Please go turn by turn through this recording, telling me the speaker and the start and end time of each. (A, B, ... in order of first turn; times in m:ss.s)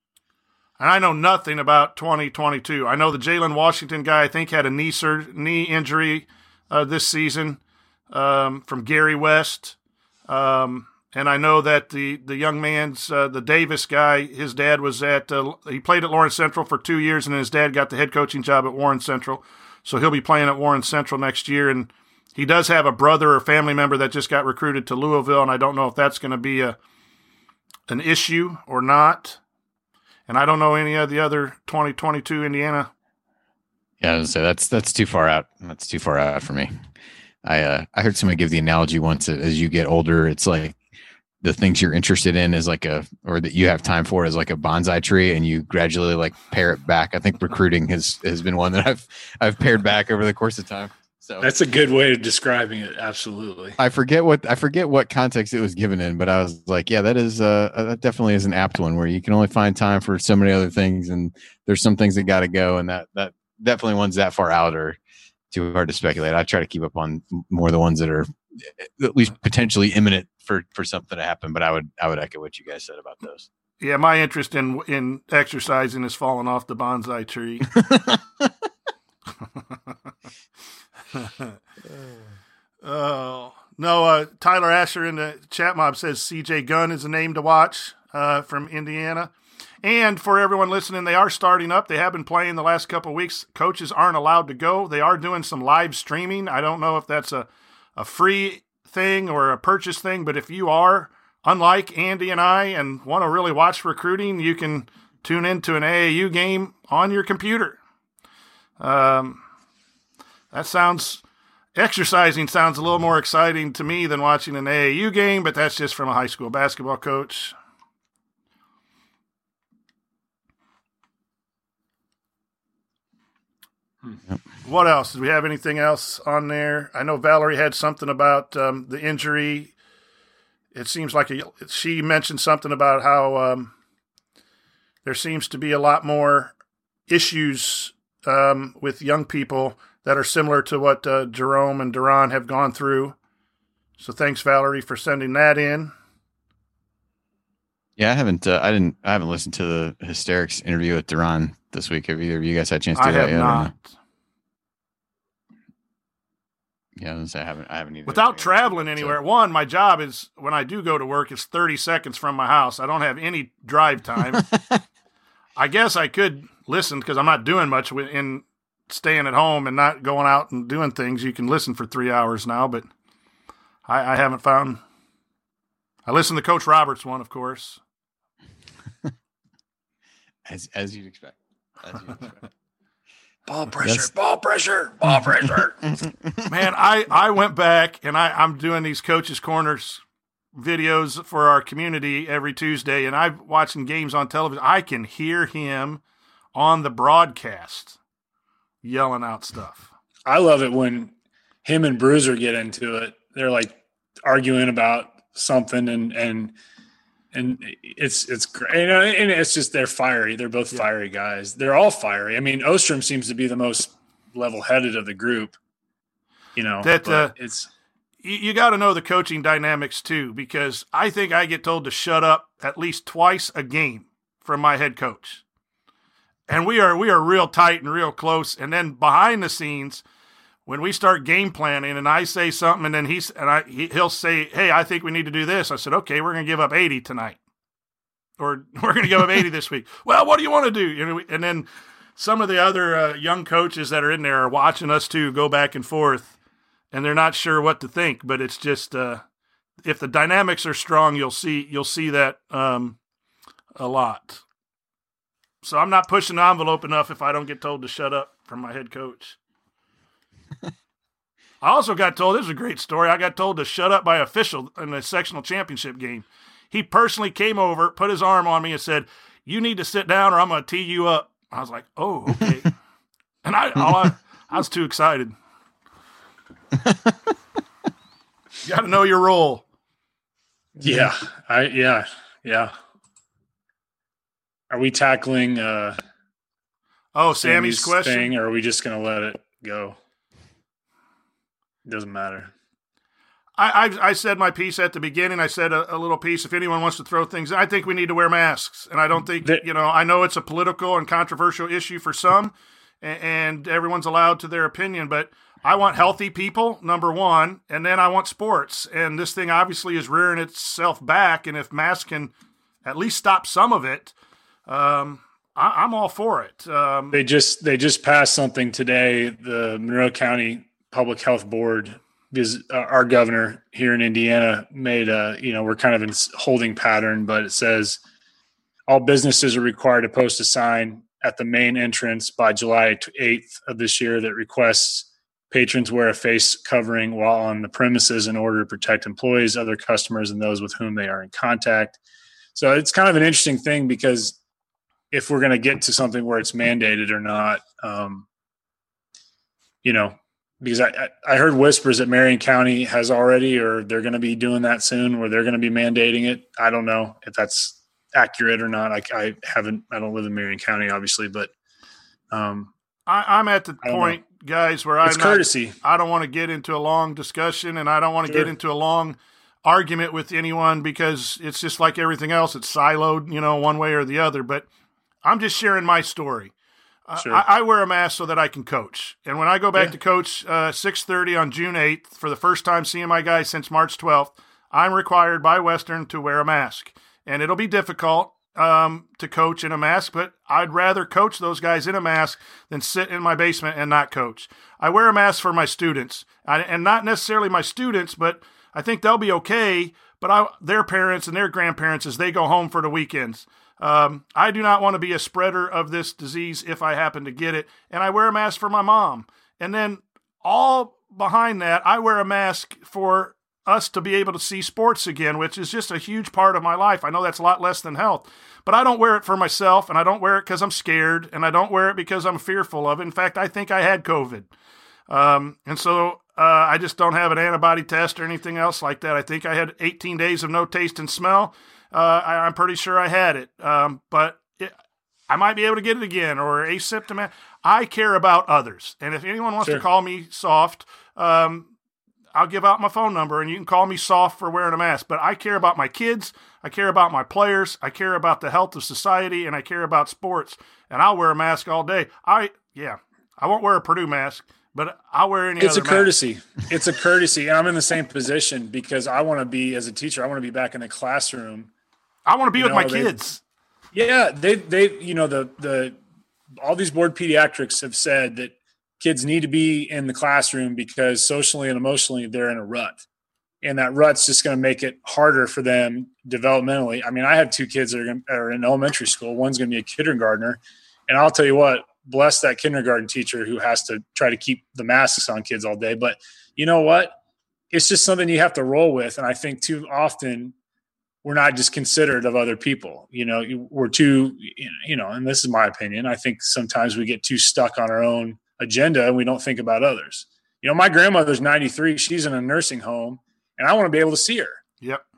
0:00.8-0:07.6 A
0:08.1-0:09.8 A
0:10.3-0:26.8 A
0:27.9-0:29.4 A
0:30.3-0:32.9 A
0:34.0-0:36.7 B
0:37.4-0:40.8 B
0:41.4-0:51.5 B
0:51.4-0:53.8 C
0:53.8-1:05.0 B
1:05.5-1:08.3 B
1:08.8-1:13.5 B
1:13.8-1:17.7 A
1:17.8-1:18.5 B
1:21.2-1:21.5 A
1:22.8-1:29.3 A
1:29.8-1:47.8 A
1:48.8-1:49.4 A
1:50.5-1:51.2 A
1:51.8-1:57.5 A
2:04.6-2:09.7 A
2:10.7-2:13.7 A
2:15.0-2:16.5 A
2:17.1-2:23.1 A
2:24.0-2:25.9 A
2:28.0-2:33.7 B
2:33.0-2:33.7 A
2:37.0-2:39.2 B
2:38.1-2:44.4 A
2:44.2-2:44.8 B
2:45.6-2:52.9 A
2:53.9-2:54.8 A
2:56.0-2:57.8 A
3:00.5-3:02.5 B
3:03.5-3:05.9 C
3:03.8-3:04.1 B
3:06.5-3:10.0 A
3:10.5-3:16.0 A
3:16.5-3:18.0 A
3:18.8-3:19.9 A
3:20.2-3:21.1 C
3:21.6-3:26.5 C
3:27.3-3:35.6 C
3:36.6-3:37.7 C
3:36.8-3:37.3 A
3:38.2-3:45.4 A
3:46.5-3:50.0 A
3:50.6-3:57.4 A
3:58.4-4:06.3 A
4:06.9-4:09.2 A
4:09.8-4:13.0 A
4:13.8-4:14.4 A
4:15.6-4:19.4 A
4:21.6-4:32.7 A
4:33.4-4:35.3 A
4:38.6-4:39.6 A
4:40.8-4:42.7 C
4:44.7-4:46.0 C
4:47.1-4:48.3 A
4:47.4-4:50.0 C
4:51.8-4:52.5 C
4:53.6-5:12.3 A
5:12.8-5:14.1 A
5:14.7-5:17.2 A
5:17.1-5:28.0 C
5:28.9-5:42.0 C
5:42.5-5:44.4 C
5:45.1-5:48.2 C
5:49.8-6:01.5 C
6:02.3-6:02.7 C
6:03.1-6:14.7 A
6:03.8-6:04.2 C
6:05.0-6:05.8 C
6:15.2-6:16.5 A
6:17.1-7:04.5 A
6:17.2-6:17.4 C
7:05.1-7:14.7 A
7:15.3-7:21.7 A
7:22.3-7:36.1 A
7:35.6-7:41.7 C
7:42.3-7:43.4 A
7:42.6-7:43.2 C
7:43.9-7:46.0 C
7:46.6-7:53.0 C
7:53.6-8:07.1 C
8:07.7-8:10.5 C
8:11.2-8:24.6 C